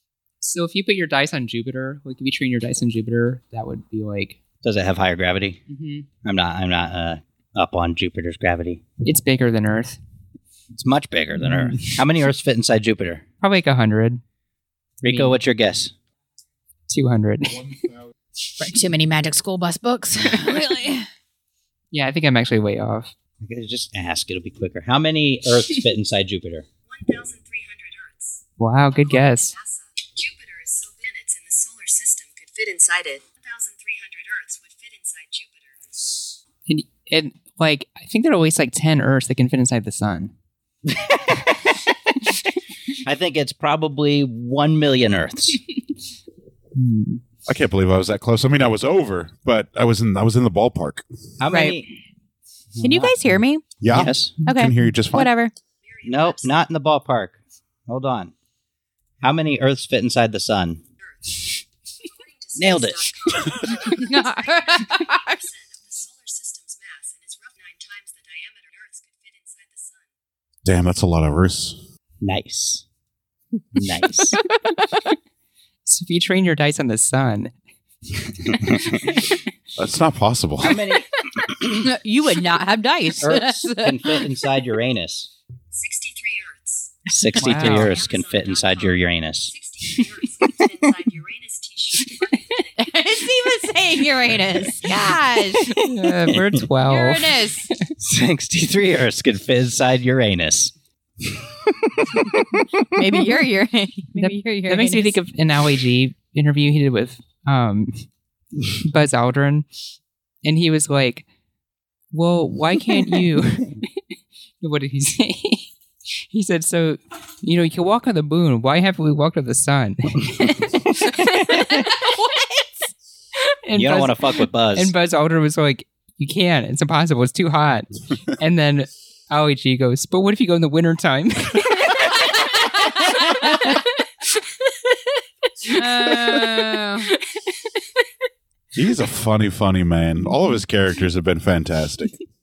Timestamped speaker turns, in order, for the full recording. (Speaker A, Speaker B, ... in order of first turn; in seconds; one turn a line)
Speaker A: 0.4-4.4
Speaker B: 4.6-5.6
Speaker A: 5.7-6.1
Speaker B: 6.2-8.8
Speaker A: 9.0-10.0
Speaker B: 10.8-13.2
Speaker A: 11.6-11.9
Speaker A: 13.4-14.2
Speaker B: 15.0-15.9
Speaker A: 15.1-15.4
Speaker A: 16.9-17.8
Speaker C: 18.6-21.0
Speaker A: 20.5-21.0
Speaker A: 21.9-23.1
Speaker B: 23.4-26.7
Speaker D: 26.9-28.4
Speaker A: 28.6-29.5
Speaker D: 29.0-35.8
Speaker A: 36.7-40.3
Speaker B: 40.9-41.6
Speaker B: 43.0-45.6
Speaker A: 46.8-47.2
Speaker E: 47.5-51.1
Speaker B: 51.4-51.9
Speaker C: 51.5-51.8
Speaker B: 52.8-53.3
Speaker C: 52.8-53.7
Speaker E: 53.8-55.3
Speaker B: 53.9-54.5
Speaker C: 54.4-55.5
Speaker D: 55.8-56.4
Speaker B: 56.0-58.3
Speaker B: 59.2-60.8
Speaker D: 62.1-70.0
Speaker B: 62.6-63.7
Speaker C: 63.9-65.3
Speaker E: 70.7-71.8
Speaker B: 72.2-72.8
Speaker B: 73.7-74.4
Speaker C: 74.3-75.1
Speaker A: 75.8-77.5
Speaker A: 78.3-79.5
Speaker E: 79.8-80.8
Speaker B: 80.6-81.7
Speaker C: 81.6-84.2
Speaker B: 83.2-85.3
Speaker D: 85.7-87.0
Speaker B: 87.1-89.5
Speaker A: 87.4-88.0
Speaker D: 87.7-92.8
Speaker C: 92.8-95.7
Speaker A: 95.7-97.7
Speaker B: 95.7-96.4
Speaker C: 96.9-97.7
Speaker B: 98.0-100.7
Speaker B: 101.2-102.7
Speaker C: 102.9-105.2
Speaker A: 104.2-108.1
Speaker A: 108.7-109.7
Speaker A: 110.4-111.3
Speaker A: 112.1-113.9
Speaker A: 114.6-115.7
Speaker A: 116.3-122.1
Speaker C: 121.5-122.7
Speaker A: 123.7-135.0
Speaker B: 123.8-124.9
Speaker A: 135.6-137.5
Speaker C: 135.7-137.1
Speaker E: 138.8-142.2